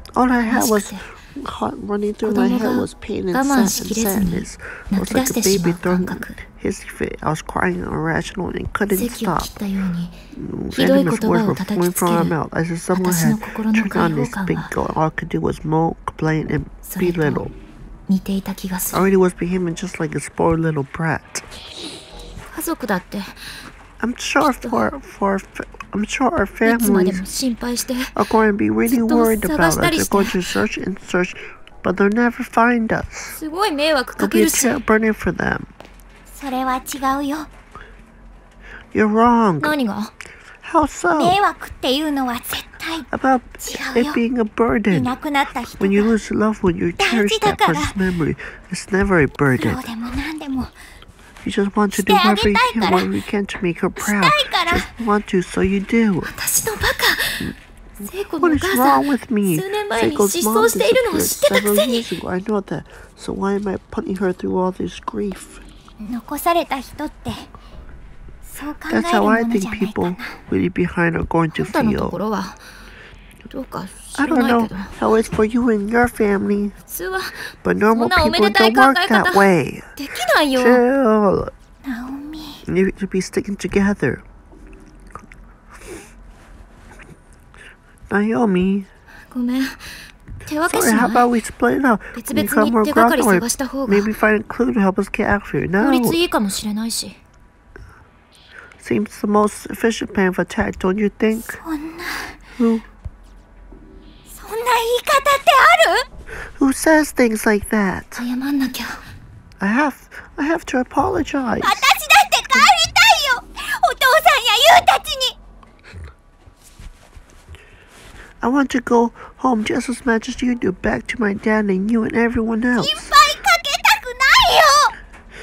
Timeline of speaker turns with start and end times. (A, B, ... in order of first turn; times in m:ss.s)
0:00.2-0:09.5 A
0:00.4-0:01.0 B
0:02.2-0:06.4 B
0:08.9-0:10.2 B
0:10.3-0:17.5 A
0:10.7-0:12.3 B
0:12.9-0:14.7 B
0:16.9-0:17.4 B
0:18.1-0:19.1 B
0:18.9-0:21.4 A
0:22.5-0:23.6 B
0:24.0-0:27.2 A
0:24.4-0:24.9 B
0:26.6-0:28.2 B
0:28.1-0:33.4 A
0:28.9-0:30.4 B
0:33.3-0:34.8 B
0:34.2-0:35.7 A
0:36.3-0:37.5 C
0:38.9-0:39.7 A
0:39.6-0:40.1 B
0:40.6-0:41.4 A
0:41.1-0:43.1 C
0:43.1-0:45.2 A
0:43.6-0:44.2 C
0:44.9-0:46.1 C
0:45.8-0:49.8 A
0:47.0-0:48.0 C
0:49.6-0:50.7 C
0:51.4-0:56.3 A
0:51.9-0:53.1 C
0:54.0-0:54.9 C
0:56.3-1:02.1 B
0:58.4-1:05.6 A
1:06.0-1:07.5 C
1:08.4-1:10.4 C
1:08.9-1:12.2 A
1:11.5-1:12.6 B
1:13.5-1:14.9 B
1:14.2-1:16.8 A
1:16.9-1:19.4 B
1:17.6-1:20.0 A
1:20.0-1:20.8 B
1:20.5-1:21.5 A
1:21.8-1:22.6 C
1:22.6-1:24.2 A
1:28.1-1:28.9 A
1:29.3-1:31.3 B
1:30.7-1:36.2 A
1:32.2-1:34.1 B
1:35.8-1:37.2 B
1:38.8-1:41.6 A
1:41.4-1:42.4 C
1:42.6-1:42.8 A
1:44.3-1:46.1 C
1:46.6-1:48.2 A
1:48.2-1:49.0 B
1:49.6-1:51.9 A
1:51.6-1:55.4 C
1:58.4-2:03.1 A
2:02.8-2:05.0 C